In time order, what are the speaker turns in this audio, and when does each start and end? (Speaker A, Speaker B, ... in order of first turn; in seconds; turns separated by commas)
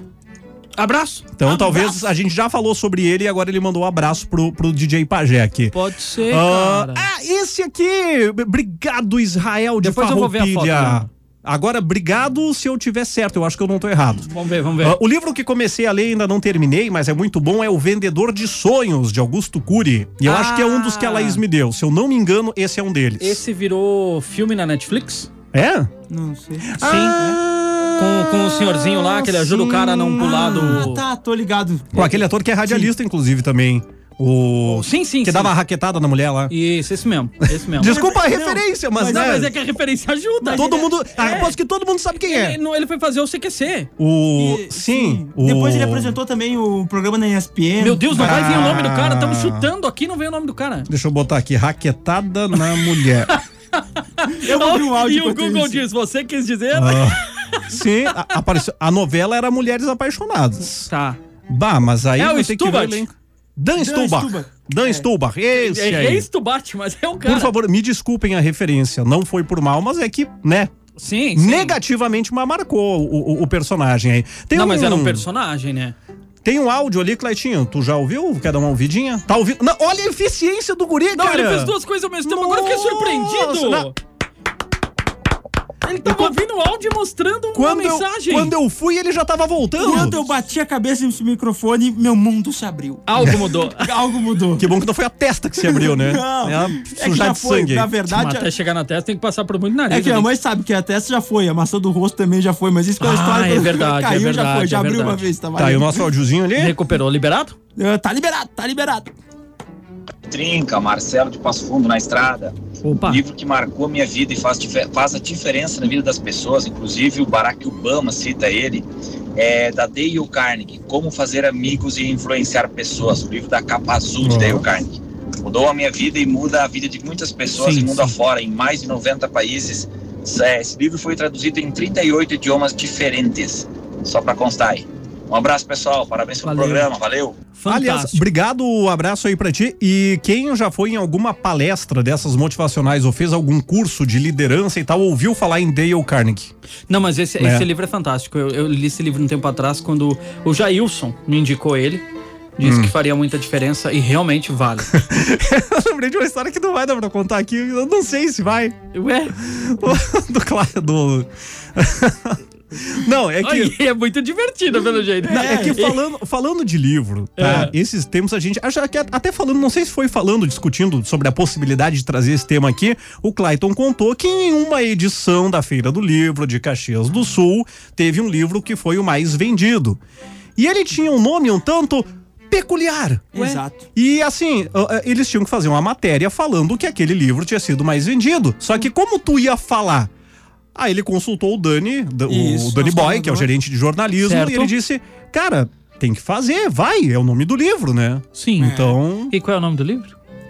Speaker A: 0.8-2.1, Speaker B: 1.4-5.8, Speaker A: 5.7-7.1, Speaker B: 6.3-14.3, Speaker A: 9.8-11.1, Speaker A: 14.2-15.0, Speaker B: 14.8-23.4, Speaker A: 20.2-21.4, Speaker A: 23.2-25.3, Speaker B: 25.5-25.9, Speaker C: 26.1-27.4, Speaker B: 26.7-30.8, Speaker A: 26.8-27.2, Speaker A: 27.9-31.0, Speaker C: 29.5-32.9, Speaker B: 31.9-36.5, Speaker A: 34.6-35.5, Speaker A: 36.5-38.0, Speaker B: 37.5-39.5, Speaker C: 37.8-39.5, Speaker A: 39.0-41.5, Speaker C: 40.4-40.9, Speaker B: 40.5-42.6, Speaker A: 42.1-43.9, Speaker B: 44.0-46.2, Speaker C: 44.4-48.8, Speaker A: 47.8-50.9, Speaker B: 48.1-49.7, Speaker B: 50.9-53.3, Speaker A: 53.3-58.3, Speaker C: 54.3-55.8, Speaker B: 56.7-60.9, Speaker A: 60.8-61.2, Speaker B: 61.5-66.3, Speaker A: 62.2-63.1, Speaker C: 63.8-65.0, Speaker A: 65.5-67.5, Speaker B: 67.2-70.7, Speaker A: 71.0-71.8, Speaker B: 71.3-75.2, Speaker A: 74.5-75.9, Speaker B: 76.4-83.9, Speaker A: 81.1-84.0, Speaker A: 85.8-88.5, Speaker B: 86.0-86.3, Speaker B: 87.5-90.2, Speaker C: 89.8-94.7, Speaker A: 89.8-90.2, Speaker A: 93.1-93.9, Speaker B: 94.6-97.9, Speaker C: 95.6-98.5, Speaker A: 98.1-100.3, Speaker C: 99.9-106.1, Speaker A: 103.0-105.3, Speaker B: 105.5-106.8, Speaker A: 106.5-107.5, Speaker C: 107.8-109.1, Speaker D: 110.3-137.4, Speaker A: 112.8-113.2, Speaker B: 124.2-124.6, Speaker A: 127.6-128.1, Speaker A: 136.4-136.9, Speaker A: 137.6-138.2, Speaker B: 137.7-146.5, Speaker A: 146.9-152.0, Speaker B: 147.4-147.7, Speaker A: 152.6-155.0, Speaker B: 152.6-152.9, Speaker B: 154.9-158.8, Speaker A: 158.9-159.3, Speaker B: 159.4-163.8, Speaker A: 163.4-166.0, Speaker C: 165.2-165.8, Speaker B: 165.2-180.0, Speaker A: 167.4-167.7, Speaker B: 180.6-190.1, Speaker C: 183.3-183.8, Speaker B: 190.7-199.3, Speaker C: 192.3-193.5, Speaker A: 194.2-194.7, Speaker A: 198.3-198.8, Speaker C: 198.6-198.9, Speaker A: 199.3-200.1